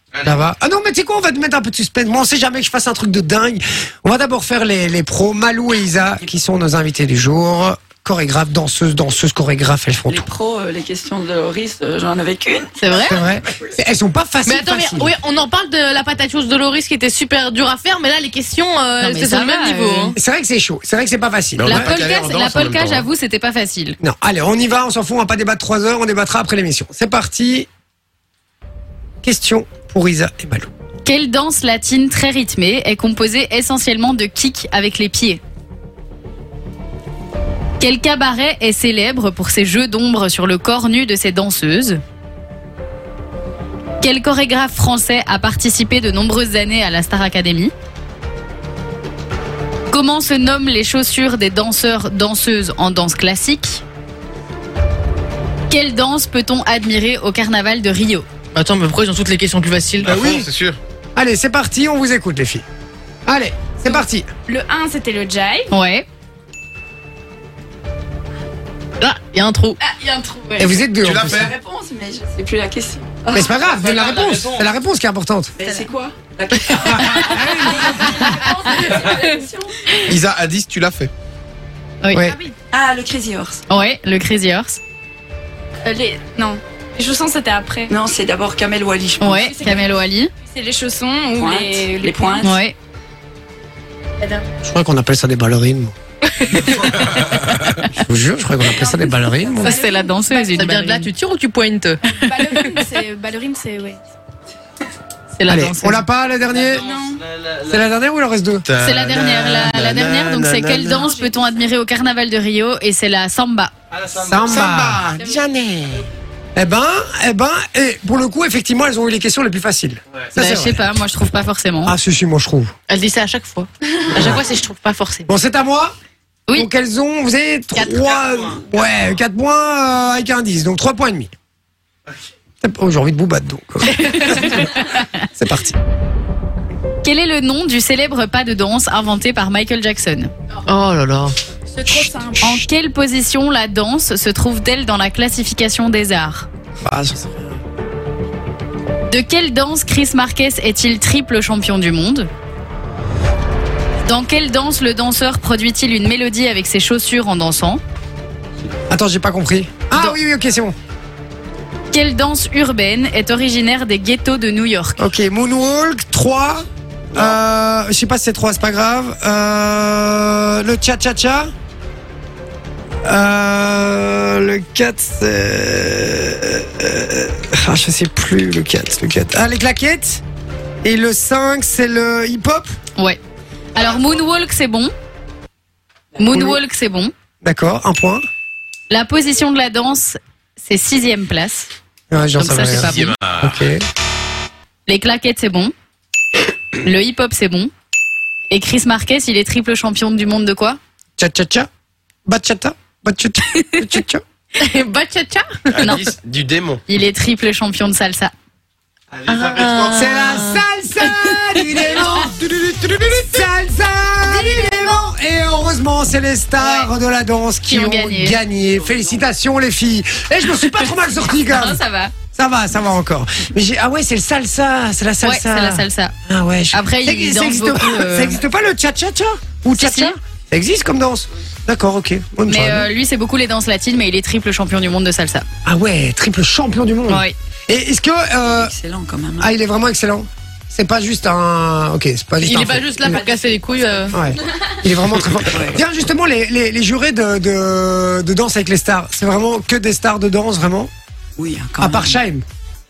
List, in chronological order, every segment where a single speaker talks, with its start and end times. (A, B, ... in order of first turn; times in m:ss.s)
0:00.1-0:00.4 A
0:00.2-0:10.3 B
0:10.1-0:12.8 C
0:12.8-0:13.2 D
0:13.0-0:15.1 B
0:14.4-0:20.2 E
0:19.0-0:20.1 D
0:20.1-0:21.9 B
0:21.6-0:23.1 F
0:21.6-0:24.0 D
0:24.0-0:27.7 B
0:29.2-0:30.7 B
0:31.0-0:35.4 D
0:37.8-0:42.0 D
0:44.0-0:47.7 D
0:49.9-0:53.8 D
0:55.7-0:58.2 D
0:58.5-1:00.1 E
1:00.0-1:00.8 F
1:00.0-1:00.5 B
1:01.2-1:02.6 B
1:03.2-1:04.3 B
1:03.9-1:05.7 G
1:05.7-1:06.0 D
1:09.0-1:09.8 E
1:09.8-1:10.7 G
1:10.6-1:11.5 B
1:11.0-1:11.5 F
1:11.1-1:13.5 C
1:13.3-1:15.5 B
1:13.6-1:14.7 A
1:15.6-1:19.8 C
1:16.7-1:18.2 B
1:20.0-1:21.1 F
1:22.0-1:22.3 D
1:22.1-1:22.4 B
1:22.7-1:23.6 C
1:23.7-1:24.8 D
1:25.8-1:27.9 G
1:27.9-1:29.5 C
1:29.2-1:30.3 D
1:29.3-1:29.9 G
1:30.4-1:32.5 G
1:31.3-1:32.5 C
1:32.4-1:32.7 D
1:34.2-1:34.5 G
1:34.6-1:35.9 B
1:36.6-1:37.9 D
1:38.0-1:39.8 B
1:38.7-1:40.7 G
1:39.6-1:41.1 D
1:40.5-1:42.0 E
1:42.1-1:44.0 G
1:45.3-1:46.0 D
1:45.5-1:46.8 B
1:46.5-1:47.8 A
1:46.7-1:47.2 G
1:47.7-1:48.6 B
1:48.6-1:51.0 F
1:48.8-1:53.7 D
1:51.0-1:51.3 G
1:53.9-1:54.8 A
1:54.2-1:55.0 B
1:54.4-1:56.0 F
1:56.5-2:00.8 B
2:00.4-2:01.9 D
2:01.8-2:02.7 B
2:02.9-2:05.3 E
2:04.1-2:04.4 B
2:05.3-2:05.9 B
2:06.5-2:11.3 B
2:07.9-2:08.9 A
2:12.6-2:14.8 B
2:13.9-2:15.1 D
2:15.4-2:15.8 B
2:17.0-2:20.3 D
2:20.7-2:21.3 E
2:21.7-2:22.6 G
2:22.4-2:26.5 D
2:26.8-2:27.5 B
2:29.1-2:32.3 D
2:34.0-2:37.8 D
2:38.9-2:40.8 B
2:41.9-2:45.0 D
2:45.0-2:51.5 B
2:53.0-3:00.2 B
3:00.8-3:02.7 B
3:03.7-3:04.9 D
3:06.2-3:07.1 D
3:06.3-3:06.6 B
3:07.4-3:08.2 B
3:08.9-3:11.7 D
3:12.1-3:13.8 B
3:12.4-3:13.1 D
3:12.7-3:13.6 F
3:14.9-3:15.7 D
3:16.8-3:17.7 D
3:18.5-3:20.8 D
3:21.2-3:21.7 B
3:22.2-3:24.2 B
3:24.6-3:25.9 E
3:25.7-3:26.8 F
3:25.8-3:26.0 D
3:26.9-3:28.3 D
3:29.1-3:30.5 A
3:29.3-3:30.6 E
3:29.9-3:41.8 B
3:31.8-3:32.1 D
3:34.3-3:34.9 D
3:36.6-3:36.9 D
3:37.7-3:38.4 D
3:38.6-3:39.2 C
3:40.6-3:40.9 D
3:41.4-3:42.1 D
3:42.3-3:52.9 B
3:45.2-3:46.1 D
3:46.7-3:48.4 D
3:49.7-3:50.1 D
3:52.5-3:55.4 D
3:55.6-3:58.7 B
3:57.1-3:57.3 D
3:58.4-3:59.5 C
3:59.4-4:03.2 B
4:02.4-4:04.1 E
4:02.9-4:04.4 C
4:04.1-4:10.9 B
4:05.4-4:05.8 C
4:11.4-4:12.2 C
4:11.8-4:12.4 B